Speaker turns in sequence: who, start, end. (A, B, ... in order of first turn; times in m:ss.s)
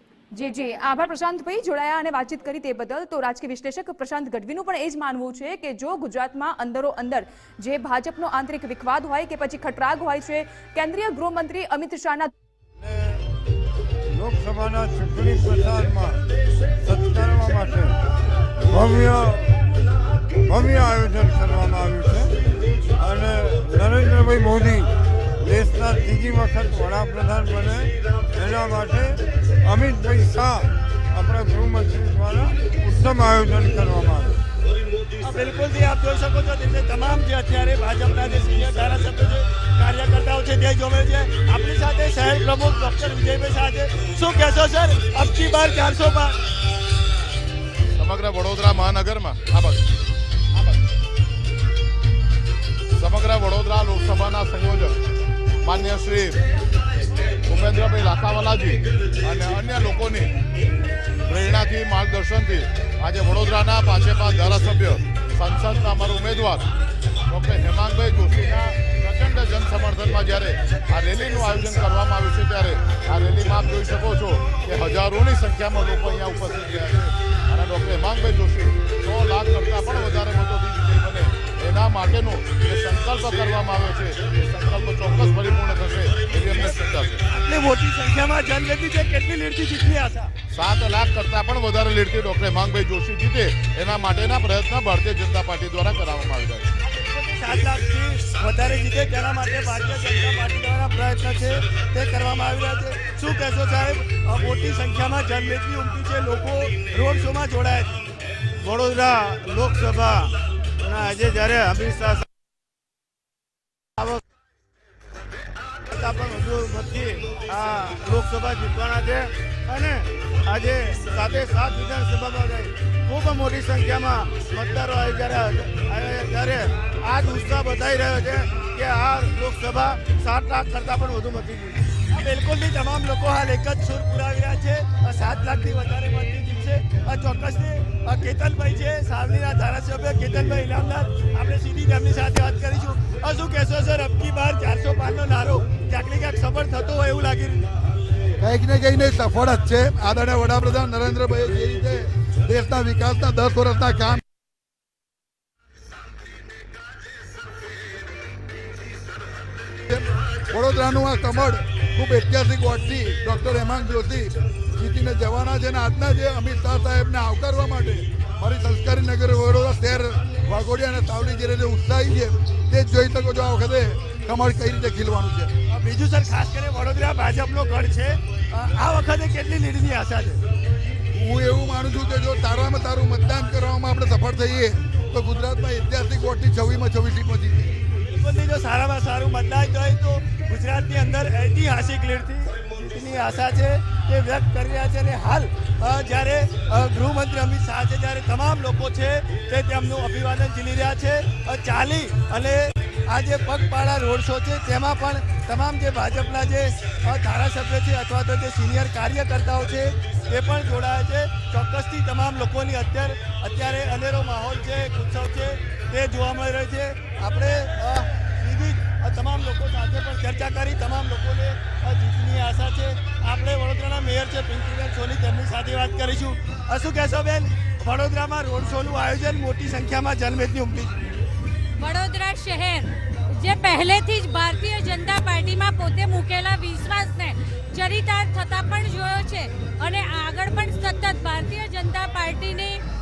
0:00.3-0:12.3 A
0:12.8-0:13.2 B
0:14.1-0:16.2 B
0:16.8-0:18.0 B
0:18.7-0:19.6 B
0:20.5-0:22.3 B
0:23.0-0:34.4 B
0:35.2-0:46.4 C
0:48.0-0:49.8 D
0:52.9-0:55.0 D
0:55.6-0:56.4 D
0:57.3-1:00.3 D
1:01.3-1:06.7 D
1:07.3-1:27.2 D
1:27.3-1:30.3 C
1:30.5-1:36.7 D
1:36.8-1:48.0 C
1:48.6-1:50.3 E
1:48.8-1:50.2 C
1:50.8-1:52.2 E
1:50.8-1:52.2 C
1:55.9-2:11.8 E
1:56.0-1:56.9 C
1:57.5-1:59.2 C
2:00.5-2:02.7 C
2:03.2-2:06.4 C
2:07.1-2:09.2 C
2:09.9-2:10.7 C
2:12.1-2:27.7 C
2:28.4-2:34.2 F
2:39.9-2:55.5 F
2:55.7-3:00.4 C
3:01.1-3:07.7 F
3:08.0-3:51.0 C
3:51.8-4:02.8 G